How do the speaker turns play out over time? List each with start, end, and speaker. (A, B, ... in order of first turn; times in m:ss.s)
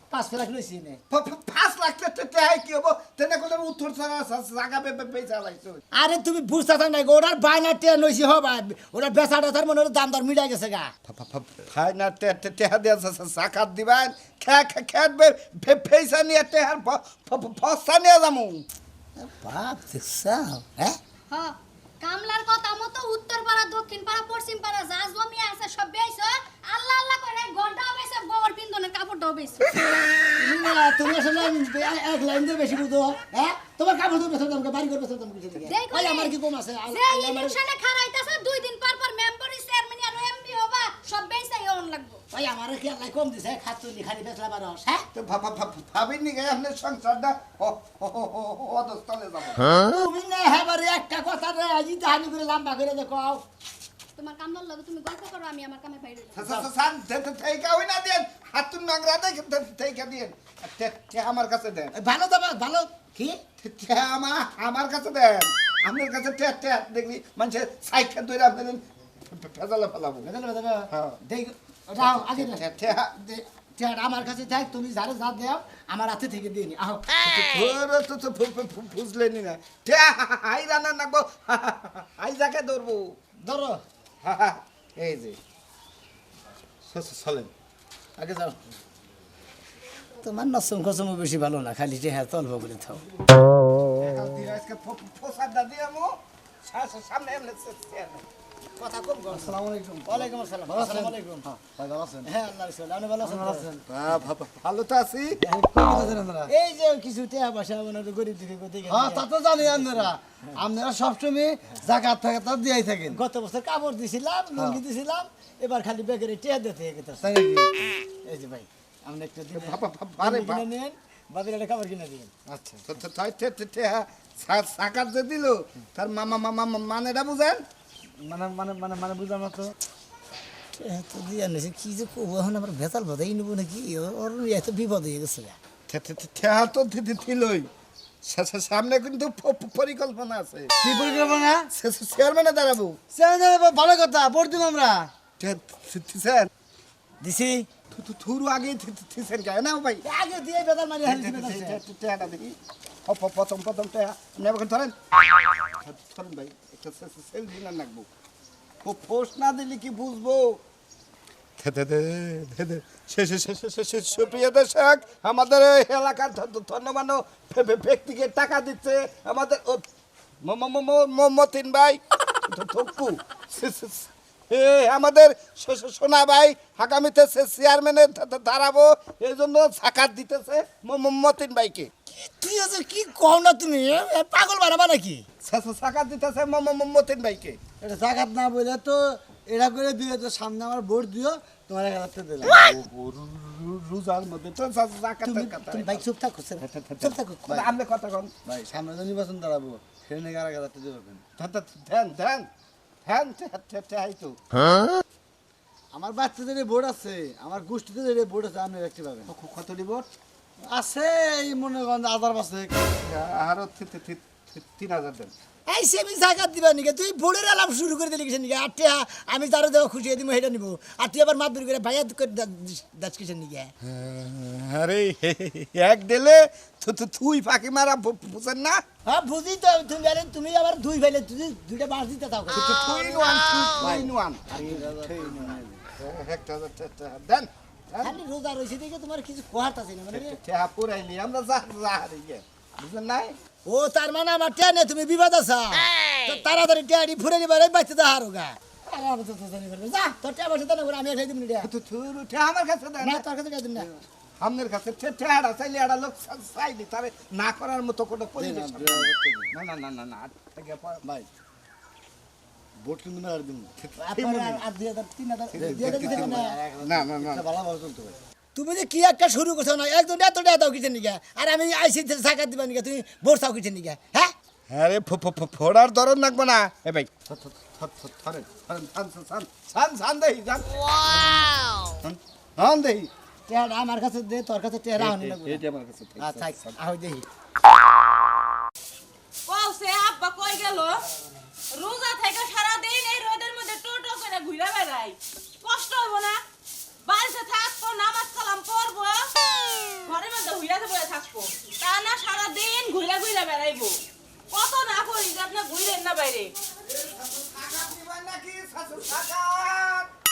0:00.1-0:01.0 A
0:01.1-0:05.8 B
0:06.0-0:10.9 A
0:11.1-0:18.6 B
0:19.2-0:21.0 A
0:21.3-0:29.8 C
0:30.4-0:37.6 A
0:35.7-0:36.3 C
0:36.9-0:42.2 C
0:42.3-0:45.0 A
0:45.1-0:49.8 B
0:49.8-0:53.4 A
0:54.2-0:56.5 C
0:56.4-1:01.9 B
1:01.9-1:03.4 A
1:03.6-1:10.3 B
1:10.2-1:17.1 A
1:10.9-1:11.2 B
1:12.0-1:13.1 B
1:17.2-1:23.2 B
1:23.4-1:23.8 A
1:24.2-1:25.4 B
1:26.9-1:27.5 B
1:28.2-1:28.6 A
1:30.2-1:33.0 A
1:34.0-1:38.2 B
1:38.8-1:39.6 A
1:39.3-1:40.3 B
1:40.1-1:41.5 A
1:40.7-1:42.3 D
1:42.2-1:43.7 A
1:43.2-1:44.2 D
1:43.9-1:45.4 B
1:45.4-1:46.5 D
1:46.5-1:50.1 A
1:48.9-1:53.2 D
1:53.1-1:57.3 A
1:57.2-1:57.7 D
1:58.2-2:02.3 A
1:59.5-2:00.6 B
2:02.5-2:02.8 D
2:02.9-2:07.6 B
2:08.2-2:09.7 D
2:10.7-2:15.6 A
2:15.9-2:17.7 B
2:18.2-2:20.7 B
2:20.8-2:21.7 D
2:21.7-2:23.0 B
2:23.1-2:25.1 D
2:25.4-2:26.5 B
2:27.2-2:27.7 A
2:27.9-2:30.0 B
2:30.0-2:31.8 A
2:31.0-2:34.9 B
2:35.8-2:38.1 B
2:38.8-2:40.6 B
2:41.6-2:49.9 B
2:50.4-3:01.9 B
3:02.2-3:05.2 A
3:05.4-3:07.6 B
3:07.8-3:12.6 D
3:12.6-3:16.0 B
3:15.2-3:17.7 A
3:16.6-3:18.3 B
3:18.5-3:21.2 D
3:21.4-3:22.5 B
3:23.1-3:24.4 B
3:25.9-3:29.3 D
3:29.3-3:30.1 B
3:30.6-3:32.9 D
3:33.0-3:35.3 B
3:35.7-3:43.7 A
3:43.9-3:48.8 B
3:49.1-3:52.9 A
3:52.5-3:54.4 B
3:53.8-3:55.8 D
3:54.6-3:55.5 A
3:56.0-3:58.2 B
3:58.0-4:00.4 A
4:00.1-4:03.4 B
4:03.6-4:11.7 A
4:11.6-4:13.2 B
4:13.0-4:13.9 A
4:14.4-4:21.1 B
4:18.4-4:19.5 D
4:22.8-4:23.7 D
4:23.8-4:24.6 B
4:24.0-4:26.6 A
4:25.5-4:27.5 B
4:25.6-4:28.2 D
4:28.6-4:34.3 A
4:34.7-4:41.4 B
4:42.0-4:43.1 B
4:43.5-4:45.6 A
4:45.0-4:46.8 B
4:46.2-4:47.3 A
4:49.5-4:51.0 E
4:51.7-4:56.4 E
4:57.0-4:59.2 E
5:00.0-5:04.0 E
5:04.5-5:06.5 E
5:06.8-5:10.1 B